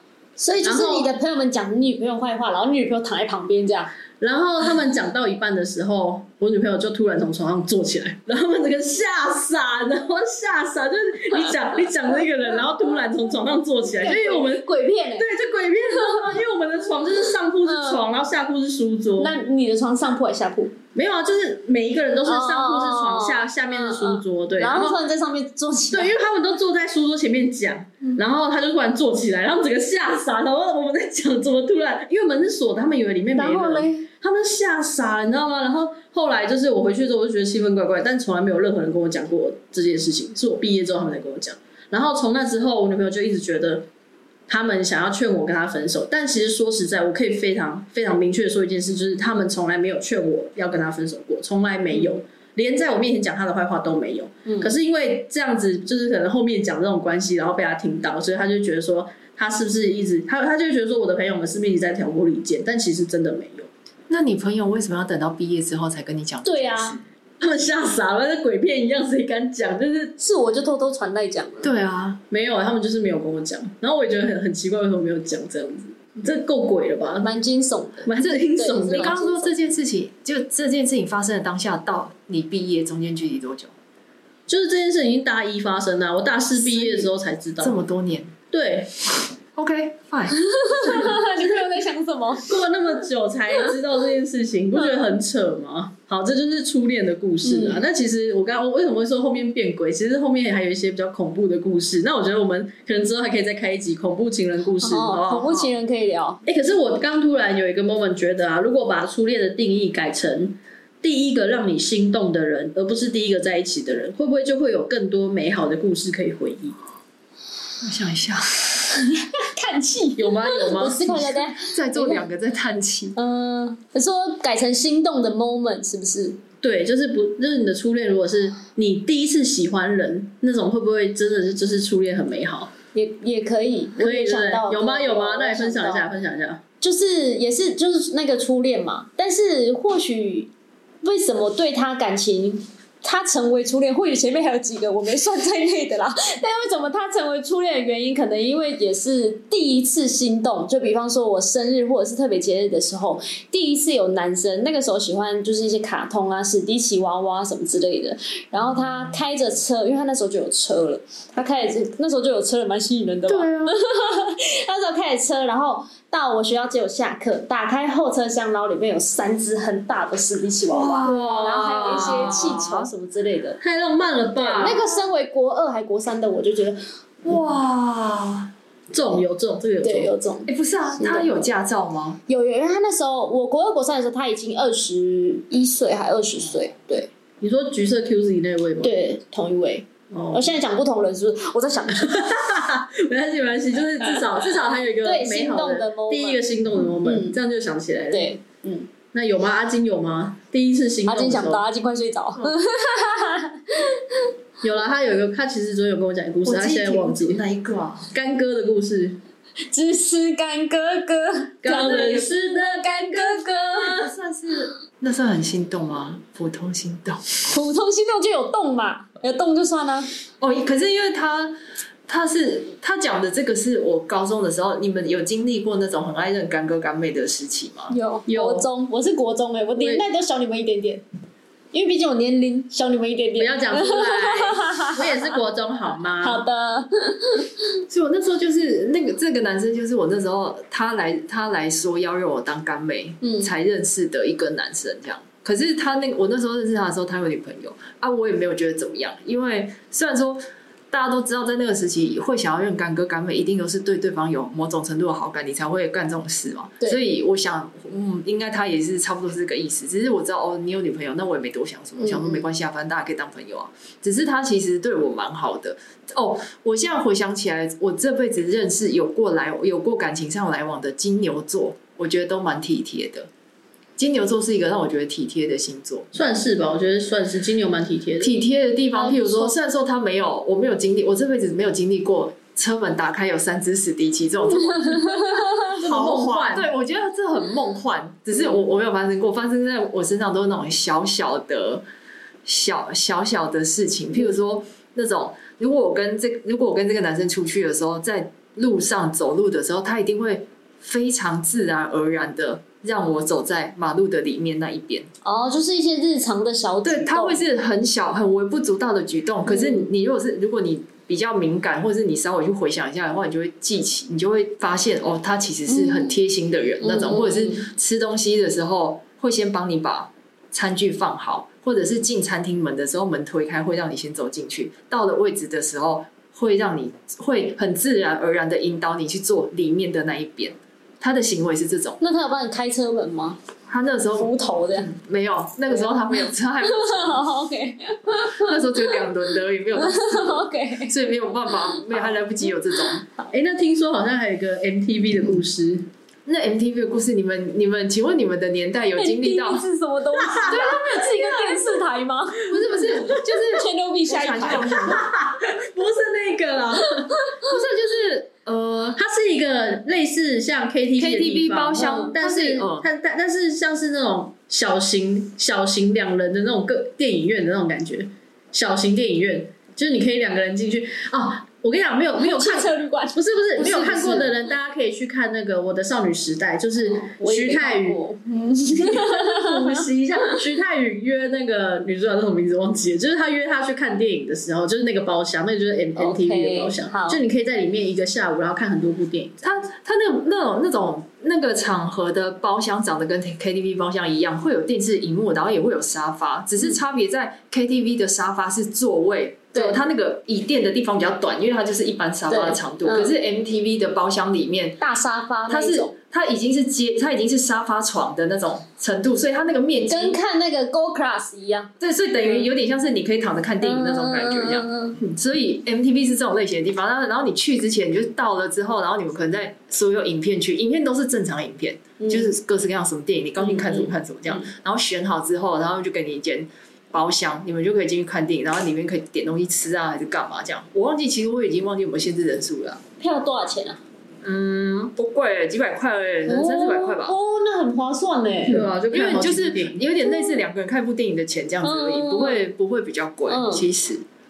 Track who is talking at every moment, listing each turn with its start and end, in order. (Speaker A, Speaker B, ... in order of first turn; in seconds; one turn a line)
Speaker A: 0.4-3.9
Speaker B: 0.6-1.1
Speaker B: 4.2-19.4
Speaker A: 13.9-15.3
Speaker A: 15.8-16.2
Speaker A: 17.6-18.0
Speaker A: 19.2-20.8
Speaker B: 20.9-25.0
Speaker A: 22.3-26.1
Speaker B: 25.9-43.9
Speaker A: 33.4-34.1
Speaker B: 44.5-63.7
Speaker A: 51.9-52.2
Speaker A: 54.5-54.7
Speaker C: 64.1-67.0
Speaker A: 66.5-67.0
Speaker B: 67.4-70.2
Speaker A: 70.2-71.7
Speaker C: 71.6-72.2
Speaker B: 72.3-77.3
Speaker A: 77.2-79.5
Speaker B: 78.0-79.2
Speaker C: 78.9-83.7
Speaker B: 84.5-87.8
Speaker A: 86.7-87.0
Speaker C: 87.6-88.3
Speaker B: 88.5-89.2
Speaker C: 89.6-91.2
Speaker A: 90.4-92.5
Speaker B: 92.5-105.7
Speaker A: 97.4-97.8
Speaker A: 104.8-106.4
Speaker B: 106.5-116.8
Speaker C: 117.8-119.0
Speaker A: 119.2-122.2
Speaker B: 120.2-121.0
Speaker C: 121.0-123.2
Speaker A: 123.2-126.4
Speaker B: 126.6-132.7
Speaker A: 132.9-136.1
Speaker B: 134.0-136.6
Speaker A: 136.8-140.5
Speaker A: 141.0-173.6
Speaker C: 163.3-163.8
Speaker C: 170.7-172.9
Speaker B: 171.1-172.6
Speaker B: 173.6-174.8
Speaker A: 174.4-176.8
Speaker C: 177.2-178.5
Speaker B: 178.9-180.1
Speaker A: 179.8-181.4
Speaker C: 180.5-182.2
Speaker A: 182.3-187.1
Speaker B: 187.4-188.9
Speaker A: 188.8-192.2
Speaker B: 190.1-190.5
Speaker B: 192.0-198.3
Speaker A: 195.0-196.4
Speaker A: 197.0-197.4
Speaker A: 198.1-198.9
Speaker B: 199.1-201.7
Speaker A: 201.1-204.2
Speaker B: 204.6-207.4
Speaker C: 206.4-208.1
Speaker B: 208.1-209.2
Speaker A: 209.7-214.1
Speaker B: 211.6-213.6
Speaker C: 211.9-212.2
Speaker C: 213.7-217.6
Speaker A: 217.5-220.1
Speaker C: 220.4-227.9
Speaker A: 227.9-231.0
Speaker B: 228.3-228.7
Speaker B: 229.8-230.1
Speaker A: 231.7-235.3
Speaker B: 233.4-236.4
Speaker A: 236.2-237.5
Speaker C: 237.9-273.3
Speaker A: 243.2-243.5
Speaker A: 262.0-262.4
Speaker C: 274.0-276.1
Speaker B: 276.1-278.3
Speaker C: 278.2-291.8
Speaker A: 278.9-279.6
Speaker A: 284.8-286.1
Speaker B: 285.8-286.7
Speaker C: 292.4-305.1
Speaker A: 305.2-307.4
Speaker C: 306.8-332.0
Speaker A: 309.5-309.9
Speaker A: 315.7-316.1
Speaker A: 316.8-317.7
Speaker A: 332.0-333.4
Speaker C: 333.7-337.2
Speaker A: 334.2-334.9
Speaker A: 335.7-338.6
Speaker C: 338.3-343.1
Speaker A: 339.8-340.9
Speaker B: 343.3-345.9
Speaker C: 346.3-349.7
Speaker A: 349.0-352.6
Speaker B: 350.2-351.1
Speaker C: 350.5-351.4
Speaker C: 352.5-355.1
Speaker B: 352.9-353.2
Speaker A: 353.3-355.0
Speaker B: 354.7-357.2
Speaker A: 357.1-357.5
Speaker C: 357.4-359.0
Speaker B: 359.0-378.0
Speaker C: 361.0-362.9
Speaker A: 361.8-362.1
Speaker A: 372.1-374.2
Speaker C: 373.8-374.3
Speaker A: 376.9-379.8
Speaker B: 378.7-389.6
Speaker A: 386.0-387.2
Speaker C: 389.4-404.8
Speaker A: 399.5-399.8
Speaker A: 402.3-403.1
Speaker A: 404.8-405.9
Speaker C: 405.5-410.2
Speaker A: 409.9-411.7
Speaker C: 411.8-432.8
Speaker A: 412.2-412.5
Speaker A: 413.6-415.0
Speaker A: 422.0-422.3
Speaker A: 423.4-424.5
Speaker A: 433.0-433.8
Speaker C: 434.2-437.2
Speaker A: 436.3-438.6
Speaker B: 438.5-439.8
Speaker C: 438.9-444.0
Speaker A: 440.0-440.4
Speaker A: 441.6-442.4
Speaker A: 443.3-443.7